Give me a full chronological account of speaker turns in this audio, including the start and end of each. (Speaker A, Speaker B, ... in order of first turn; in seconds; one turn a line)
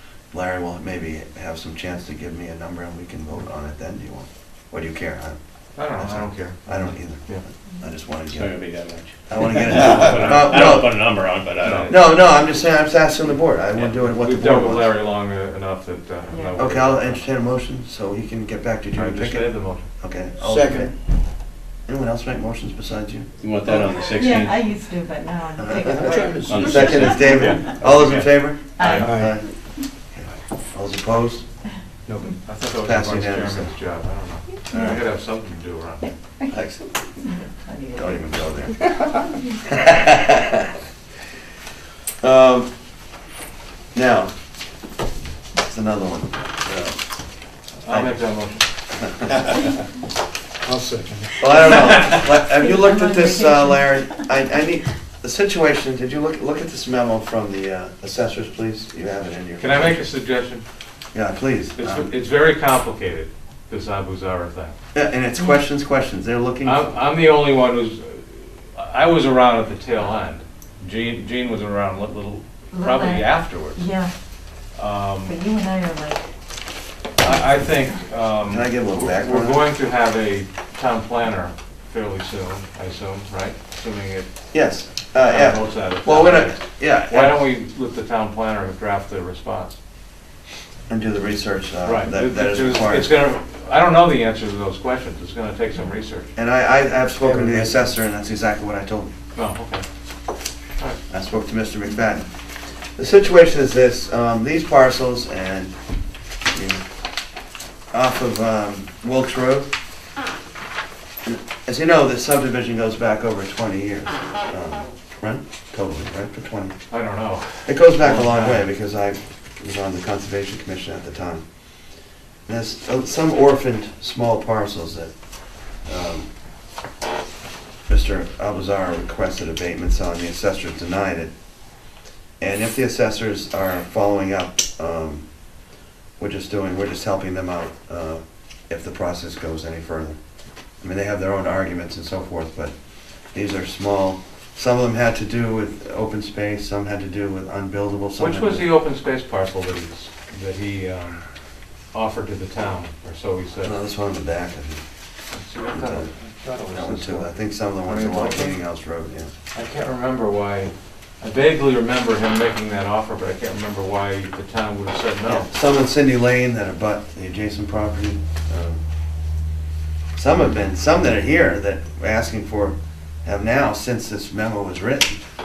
Speaker A: 0.3-8.6
Speaker B: 5.8-7.4
Speaker C: 8.3-12.1
Speaker A: 9.3-11.1
Speaker B: 10.1-10.4
Speaker B: 11.6-11.9
Speaker A: 11.9-14.9
Speaker B: 14.1-17.2
Speaker D: 16.3-16.6
Speaker A: 16.6-20.9
Speaker B: 18.9-19.9
Speaker E: 20.4-20.9
Speaker A: 21.9-23.3
Speaker C: 23.4-24.7
Speaker D: 23.8-26.9
Speaker A: 25.6-29.5
Speaker E: 25.8-27.6
Speaker C: 26.4-27.4
Speaker B: 27.2-29.1
Speaker D: 28.8-29.7
Speaker E: 28.9-29.4
Speaker A: 30.1-31.4
Speaker E: 32.0-32.3
Speaker B: 32.2-36.1
Speaker A: 32.8-33.7
Speaker A: 34.7-35.0
Speaker D: 36.0-36.5
Speaker A: 36.5-37.2
Speaker D: 37.2-38.8
Speaker A: 38.0-39.1
Speaker A: 39.7-40.7
Speaker A: 42.2-42.7
Speaker A: 43.9-44.3
Speaker A: 45.6-47.0
Speaker B: 47.8-48.7
Speaker A: 47.9-48.2
Speaker A: 48.9-49.4
Speaker E: 50.6-51.5
Speaker A: 51.4-60.1
Speaker B: 51.8-52.1
Speaker D: 52.4-54.3
Speaker B: 59.6-60.6
Speaker A: 61.1-62.1
Speaker B: 61.8-64.8
Speaker A: 64.9-66.9
Speaker D: 65.4-65.6
Speaker B: 66.6-73.8
Speaker D: 72.7-74.1
Speaker B: 74.8-75.3
Speaker D: 75.3-76.3
Speaker B: 77.2-84.3
Speaker A: 78.5-79.6
Speaker A: 84.5-87.4
Speaker B: 85.2-89.8
Speaker A: 90.9-93.1
Speaker B: 91.8-96.3
Speaker A: 96.4-99.1
Speaker E: 97.2-97.7
Speaker B: 99.4-99.8
Speaker A: 101.1-102.3
Speaker A: 103.0-105.8
Speaker A: 106.5-106.8
Speaker A: 107.9-109.7
Speaker A: 111.2-116.8
Speaker B: 116.9-118.7
Speaker A: 117.6-121.5
Speaker A: 122.5-125.1
Speaker A: 125.7-126.3
Speaker A: 127.9-131.3
Speaker A: 132.4-135.3
Speaker A: 136.2-140.2
Speaker A: 140.8-142.8
Speaker A: 143.3-148.7
Speaker B: 148.2-151.2
Speaker B: 151.9-153.8
Speaker A: 153.6-154.8
Speaker B: 155.3-158.6
Speaker A: 155.7-156.1
Speaker A: 156.7-159.3
Speaker B: 159.5-165.5
Speaker A: 165.2-168.8
Speaker A: 170.2-175.2